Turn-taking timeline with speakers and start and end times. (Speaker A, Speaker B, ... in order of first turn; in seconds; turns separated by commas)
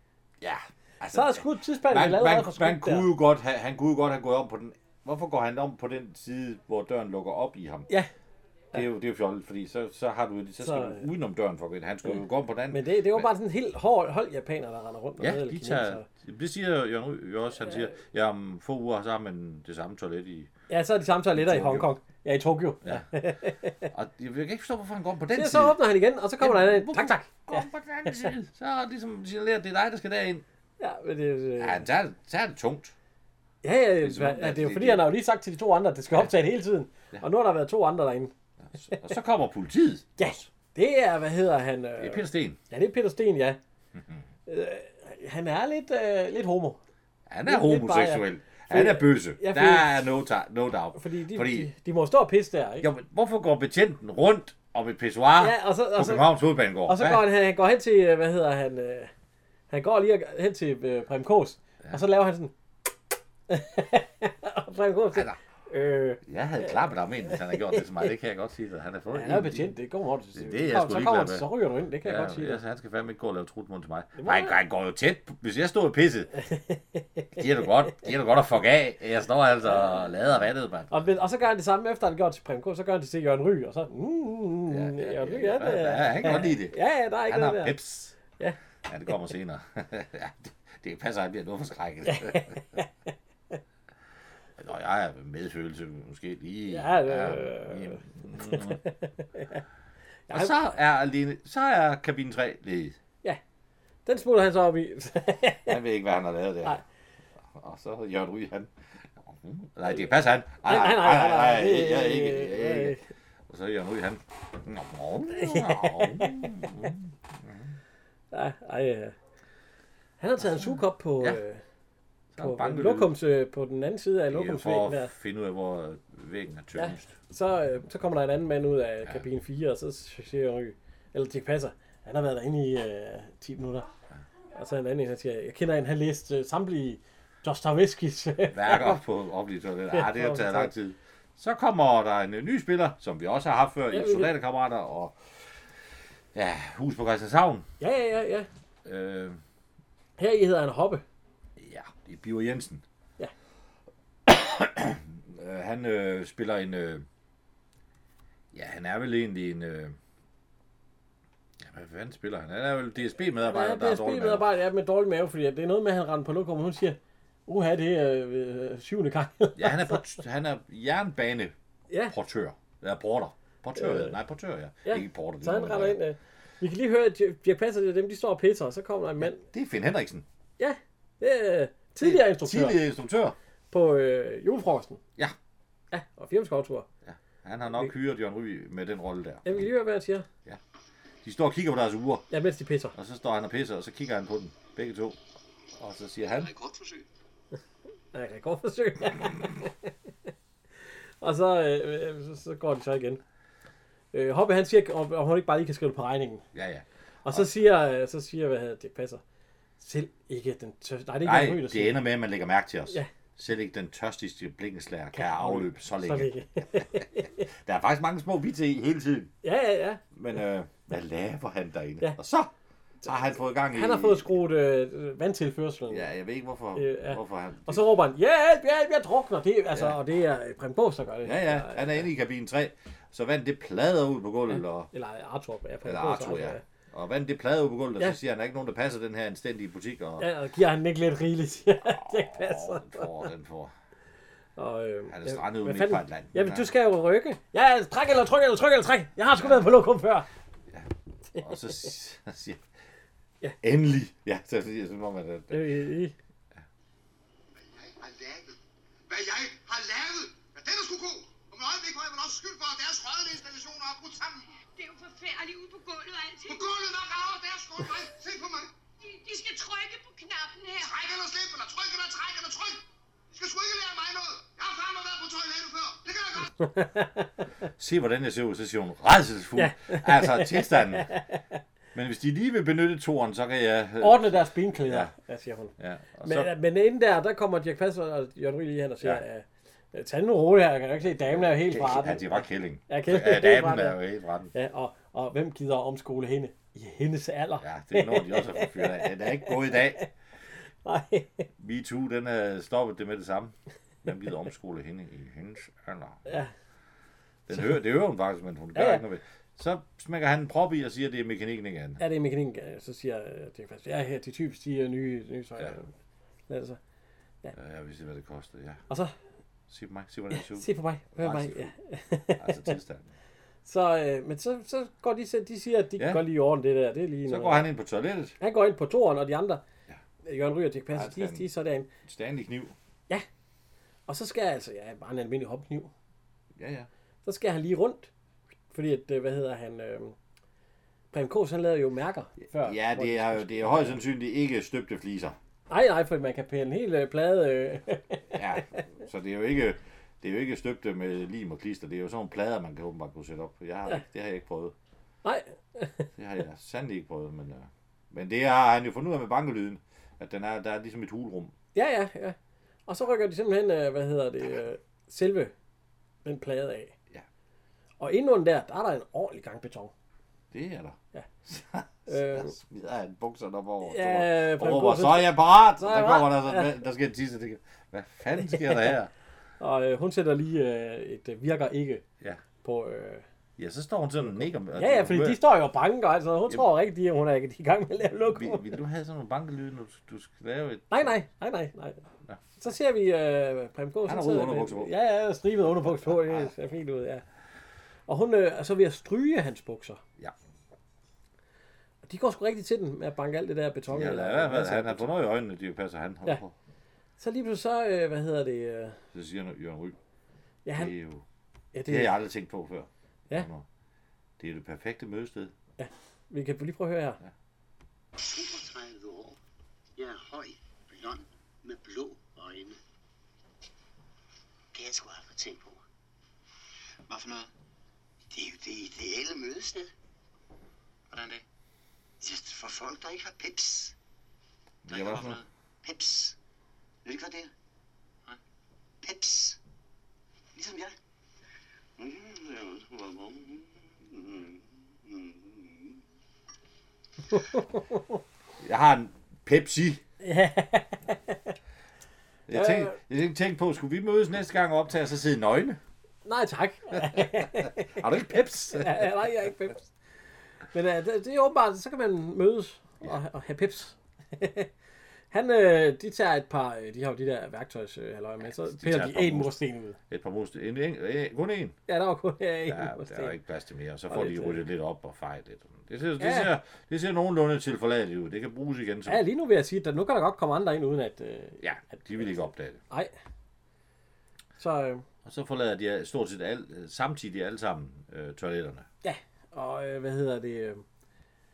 Speaker A: 0.4-7.9, Speaker B: 1.1-3.1, Speaker A: 8.7-13.3, Speaker B: 10.6-11.1, Speaker B: 12.7-16.1, Speaker A: 15.2-20.5, Speaker B: 20.7-23.9, Speaker A: 21.3-21.9, Speaker A: 23.9-25.8, Speaker B: 25.3-28.3, Speaker A: 26.4-30.4, Speaker B: 30.8-31.9, Speaker A: 31.6-32.9, Speaker B: 33.6-39.0, Speaker A: 34.0-35.1, Speaker A: 38.6-40.5, Speaker B: 40.2-43.6, Speaker A: 42.0-42.6, Speaker A: 44.0-44.2, Speaker B: 44.5-46.8, Speaker A: 47.3-51.7, Speaker B: 47.5-50.0, Speaker B: 51.0-52.9, Speaker A: 52.8-57.2, Speaker B: 55.4-56.3, Speaker B: 56.9-59.1, Speaker B: 59.7-62.5, Speaker B: 63.5-67.8, Speaker A: 65.1-65.4, Speaker A: 66.2-69.8, Speaker B: 69.1-72.6, Speaker A: 70.3-71.5, Speaker A: 72.0-76.3, Speaker B: 74.2-74.6, Speaker B: 76.4-77.5, Speaker A: 77.4-81.0, Speaker B: 79.7-80.0, Speaker B: 80.9-87.8, Speaker A: 84.7-88.2, Speaker A: 88.8-92.6, Speaker B: 92.0-92.9, Speaker A: 94.6-98.8, Speaker B: 96.7-99.6, Speaker B: 100.3-100.6, Speaker A: 100.3-103.0, Speaker B: 104.1-105.8, Speaker A: 105.7-106.8, Speaker A: 107.5-113.0, Speaker B: 110.6-113.0, Speaker A: 113.5-117.8, Speaker B: 115.3-116.9, Speaker B: 118.3-119.2, Speaker B: 120.2-121.6, Speaker A: 122.3-123.1, Speaker B: 122.4-125.1, Speaker A: 124.3-127.2, Speaker B: 126.8-133.9, Speaker B: 134.5-139.0, Speaker A: 138.5-145.6, Speaker B: 139.9-140.7, Speaker B: 143.9-144.3, Speaker A: 146.3-147.7, Speaker B: 147.8-148.5, Speaker A: 148.8-149.4, Speaker B: 150.2-151.0, Speaker A: 151.6-152.8, Speaker A: 154.3-157.1, Speaker A: 158.5-160.0, Speaker A: 161.6-164.5, Speaker B: 163.5-170.0, Speaker A: 169.6-171.5, Speaker B: 171.9-172.2, Speaker A: 172.1-176.0, Speaker B: 173.8-174.2, Speaker B: 174.8-179.4, Speaker A: 179.2-180.2, Speaker B: 180.6-182.8, Speaker A: 182.0-183.4, Speaker B: 183.7-185.0, Speaker B: 185.9-186.9, Speaker A: 187.1-189.7, Speaker B: 189.4-190.3, Speaker A: 191.2-192.2, Speaker B: 192.3-193.0, Speaker A: 192.9-195.2, Speaker A: 195.8-196.5, Speaker C: 196.3-197.1, Speaker B: 198.1-199.9, Speaker B: 200.8-203.2, Speaker B: 204.1-206.4, Speaker A: 206.5-207.5, Speaker B: 207.2-209.2, Speaker B: 209.8-212.0, Speaker A: 211.2-219.3, Speaker B: 215.2-217.5, Speaker B: 219.4-220.0, Speaker A: 220.1-222.5, Speaker A: 223.1-224.3, Speaker B: 223.7-226.1, Speaker A: 225.9-227.9, Speaker B: 226.8-232.1, Speaker A: 229.7-230.0, Speaker A: 231.2-234.9, Speaker B: 234.9-236.6, Speaker A: 235.8-240.3, Speaker B: 240.2-243.1, Speaker A: 241.8-243.7, Speaker B: 244.6-250.3, Speaker A: 245.1-246.7, Speaker A: 249.3-249.7, Speaker A: 250.7-252.7, Speaker A: 253.6-255.8, Speaker B: 255.5-256.1, Speaker D: 257.6-258.6, Speaker D: 259.1-264.5, Speaker E: 264.7-266.7, Speaker D: 266.5-268.7, Speaker E: 269.0-270.9, Speaker D: 270.8-276.5, Speaker B: 276.6-277.4, Speaker A: 277.8-281.1, Speaker B: 279.6-281.4, Speaker A: 281.9-285.1, Speaker B: 284.0-294.0, Speaker A: 285.8-286.5, Speaker A: 291.3-294.5, Speaker B: 294.5-300.1, Speaker A: 297.6-300.1, Speaker B: 300.9-301.5, Speaker A: 301.6-306.4, Speaker B: 306.3-306.5, Speaker A: 307.5-312.0, Speaker B: 308.8-309.0, Speaker B: 312.0-315.9, Speaker B: 316.5-316.8, Speaker A: 317.6-318.8, Speaker B: 318.9-319.1, Speaker A: 319.7-321.7, Speaker B: 320.3-322.8, Speaker A: 322.4-323.1, Speaker B: 323.6-327.7, Speaker A: 326.0-326.2, Speaker A: 327.3-328.4, Speaker B: 328.4-329.6, Speaker B: 330.2-331.9, Speaker A: 330.9-331.5, Speaker A: 332.1-332.8, Speaker B: 334.1-335.9, Speaker A: 336.6-336.9, Speaker B: 337.2-338.1, Speaker B: 338.7-340.2, Speaker B: 341.1-344.0, Speaker A: 342.5-345.4, Speaker B: 345.7-348.8, Speaker A: 348.3-354.7, Speaker B: 355.2-356.1, Speaker A: 356.2-361.5, Speaker B: 361.8-362.4, Speaker B: 362.9-365.5, Speaker B: 366.2-366.9, Speaker B: 368.0-369.9, Speaker A: 370.5-379.1, Speaker B: 372.1-372.6, Speaker B: 373.8-376.7, Speaker B: 379.6-382.0, Speaker B: 382.6-383.2, Speaker A: 383.6-385.4, Speaker B: 384.8-388.7, Speaker A: 388.3-391.1, Speaker B: 390.9-392.0, Speaker B: 392.6-397.2, Speaker A: 394.1-394.9, Speaker A: 395.9-396.5, Speaker B: 398.1-400.0, Speaker B: 402.0-405.1, Speaker A: 403.9-406.5, Speaker B: 407.2-409.0, Speaker A: 409.1-410.0, Speaker B: 410.6-410.9, Speaker A: 410.7-411.2, Speaker B: 411.7-412.2, Speaker A: 411.9-413.7, Speaker A: 414.4-415.5, Speaker B: 415.8-417.2, Speaker D: 418.2-419.4, Speaker D: 420.0-422.8, Speaker D: 424.7-425.7, Speaker C: 427.1-427.5, Speaker D: 428.3-429.9, Speaker C: 431.1-431.4, Speaker D: 432.2-433.9, Speaker A: 434.9-435.4, Speaker C: 434.9-435.5, Speaker D: 435.9-436.3, Speaker D: 437.1-437.5, Speaker D: 439.0-439.6, Speaker D: 440.6-440.9, Speaker D: 442.0-445.8, Speaker B: 447.3-448.1, Speaker A: 448.6-450.0, Speaker B: 450.2-451.6, Speaker A: 452.5-455.8, Speaker B: 452.5-453.0, Speaker B: 456.2-459.9, Speaker A: 457.0-459.1, Speaker B: 460.7-464.7, Speaker B: 465.3-470.0, Speaker A: 468.4-469.6, Speaker A: 470.1-471.8, Speaker B: 471.9-473.4, Speaker A: 472.7-479.2, Speaker B: 474.1-474.6, Speaker B: 476.2-476.5, Speaker B: 479.1-482.3, Speaker A: 481.6-482.8, Speaker B: 484.6-485.1, Speaker A: 485.2-488.9, Speaker B: 489.0-490.8